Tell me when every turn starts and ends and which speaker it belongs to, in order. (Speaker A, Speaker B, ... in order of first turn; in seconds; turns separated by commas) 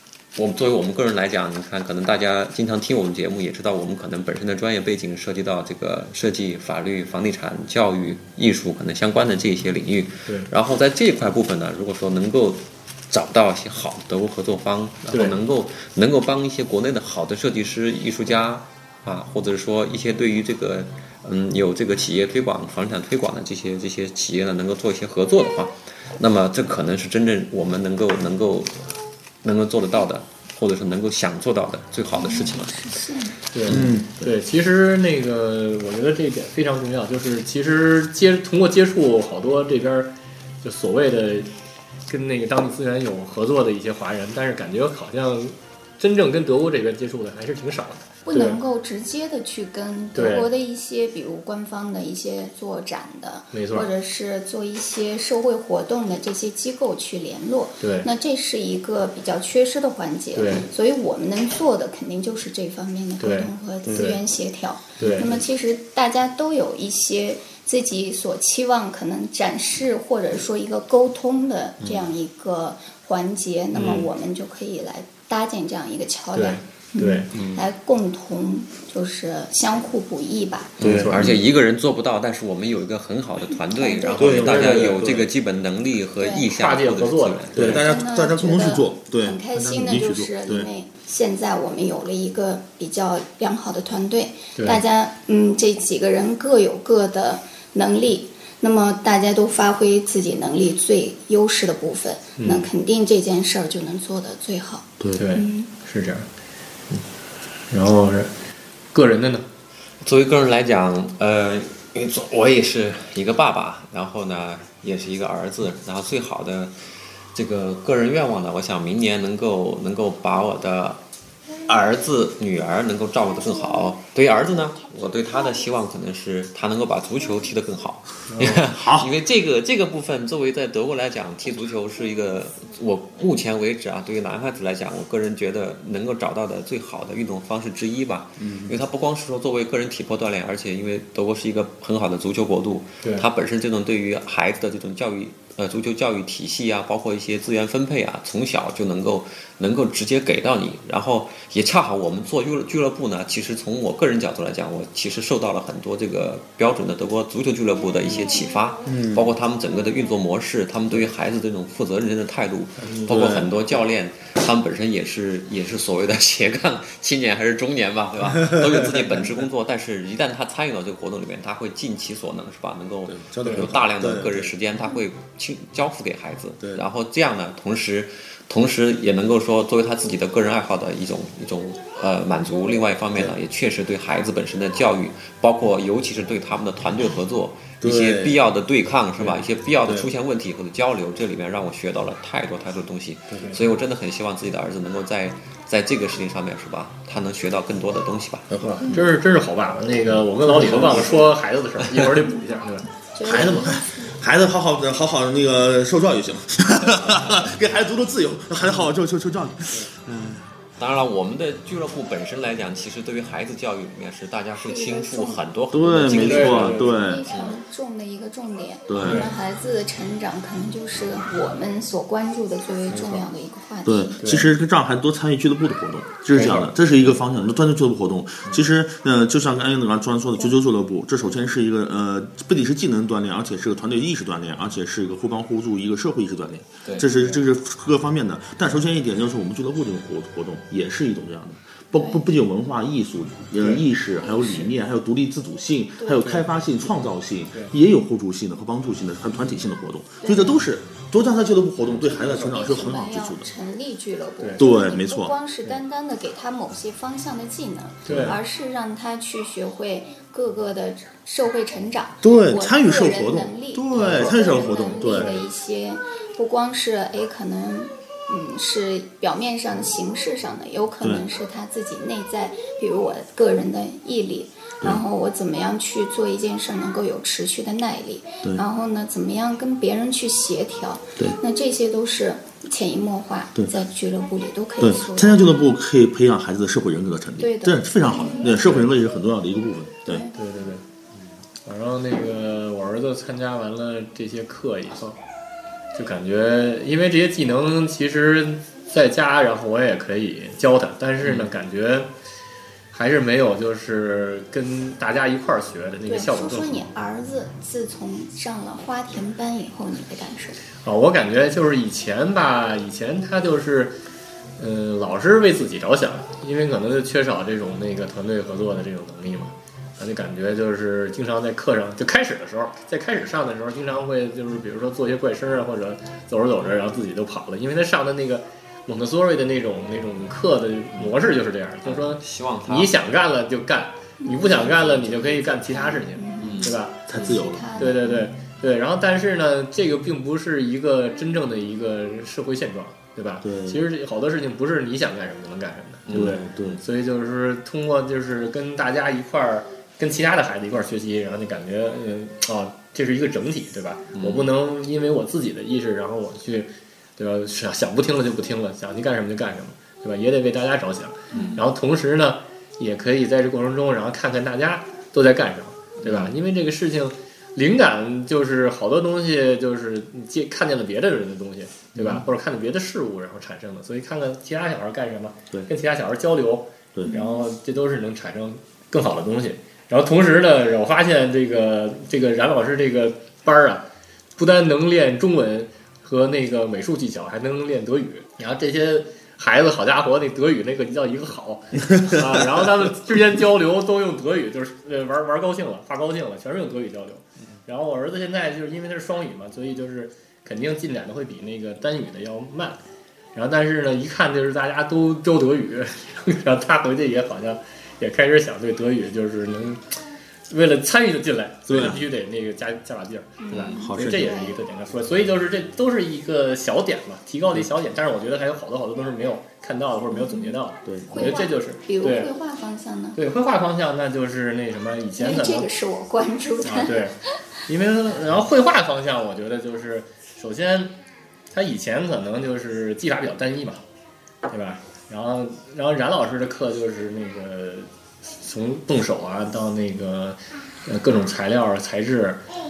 Speaker A: 0.3-28.9, Speaker B: 15.1-15.4, Speaker A: 29.4-32.9, Speaker C: 32.1-33.4, Speaker B: 33.5-41.5, Speaker D: 33.7-34.3, Speaker B: 42.1-48.6, Speaker C: 48.3-80.8, Speaker B: 50.1-50.5, Speaker B: 53.5-53.9, Speaker B: 57.8-58.1, Speaker B: 60.4-60.7, Speaker B: 63.2-64.2, Speaker B: 65.0-65.4, Speaker B: 73.7-74.1, Speaker B: 76.3-77.6, Speaker D: 80.8-81.4, Speaker B: 80.8-81.3, Speaker A: 80.8-87.8, Speaker C: 83.7-84.5, Speaker D: 84.2-85.3, Speaker B: 84.4-85.0, Speaker C: 86.2-86.5, Speaker B: 86.5-87.8, Speaker D: 87.5-90.7, Speaker C: 87.8-105.7, Speaker B: 94.6-94.8, Speaker B: 102.4-102.7, Speaker B: 105.2-106.3, Speaker B: 107.7-108.3, Speaker B: 108.9-109.5, Speaker A: 110.0-116.7, Speaker A: 117.3-121.0, Speaker A: 121.7-198.5, Speaker B: 128.3-128.6, Speaker D: 128.7-129.1, Speaker D: 138.4-138.8, Speaker D: 158.9-159.3, Speaker B: 162.8-163.1, Speaker D: 163.1-163.5, Speaker D: 168.4-169.2, Speaker D: 173.1-174.5, Speaker B: 173.4-173.7, Speaker D: 176.6-176.8, Speaker D: 187.8-188.4, Speaker D: 189.8-190.1, Speaker D: 198.5-199.1, Speaker B: 198.6-202.9, Speaker D: 200.4-201.2, Speaker C: 203.1-204.1, Speaker D: 203.2-210.5, Speaker A: 210.8-217.6, Speaker C: 214.6-215.4, Speaker D: 215.7-217.3, Speaker B: 216.2-217.0, Speaker C: 216.2-224.3, Speaker D: 218.9-219.3, Speaker B: 219.0-219.3, Speaker B: 222.9-223.3, Speaker D: 223.8-253.5, Speaker B: 224.2-224.5, Speaker B: 226.3-226.7, Speaker B: 237.0-237.4, Speaker C: 241.9-242.2, Speaker B: 243.6-243.8, Speaker C: 244.2-244.7, Speaker C: 246.0-246.4, Speaker C: 250.2-250.6, Speaker C: 252.0-285.4, Speaker B: 252.3-252.6, Speaker D: 254.6-255.3, Speaker B: 258.1-258.4, Speaker D: 262.2-265.4, Speaker B: 263.9-264.4, Speaker B: 265.0-265.4, Speaker D: 284.8-290.3, Speaker C: 287.4-288.6, Speaker B: 288.6-288.9, Speaker B: 290.3-290.8, Speaker B: 291.6-295.2, Speaker B: 295.9-302.1, Speaker A: 301.2-301.5, Speaker B: 302.9-306.9, Speaker C: 306.1-310.6, Speaker B: 310.8-314.0, Speaker B: 314.6-337.1, Speaker A: 331.8-332.9, Speaker C: 334.2-338.2, Speaker A: 336.4-336.7, Speaker D: 337.1-337.8, Speaker B: 337.8-383.8, Speaker D: 343.4-343.8, Speaker A: 346.1-346.4, Speaker D: 346.1-346.8, Speaker A: 354.2-354.5, Speaker A: 361.3-361.6, Speaker D: 371.9-372.2, Speaker C: 377.1-377.4, Speaker B: 384.4-402.8, Speaker D: 391.9-392.6, Speaker B: 403.3-409.9, Speaker B: 410.5-422.3, Speaker D: 411.7-412.0, Speaker C: 413.4-414.6, Speaker D: 413.6-414.4, Speaker C: 420.1-420.6, Speaker D: 420.9-421.4, Speaker C: 421.1-423.2, Speaker B: 423.2-425.7, Speaker C: 425.2-427.0, Speaker B: 426.6-430.9, Speaker B: 431.5-433.8, Speaker B: 434.5-442.4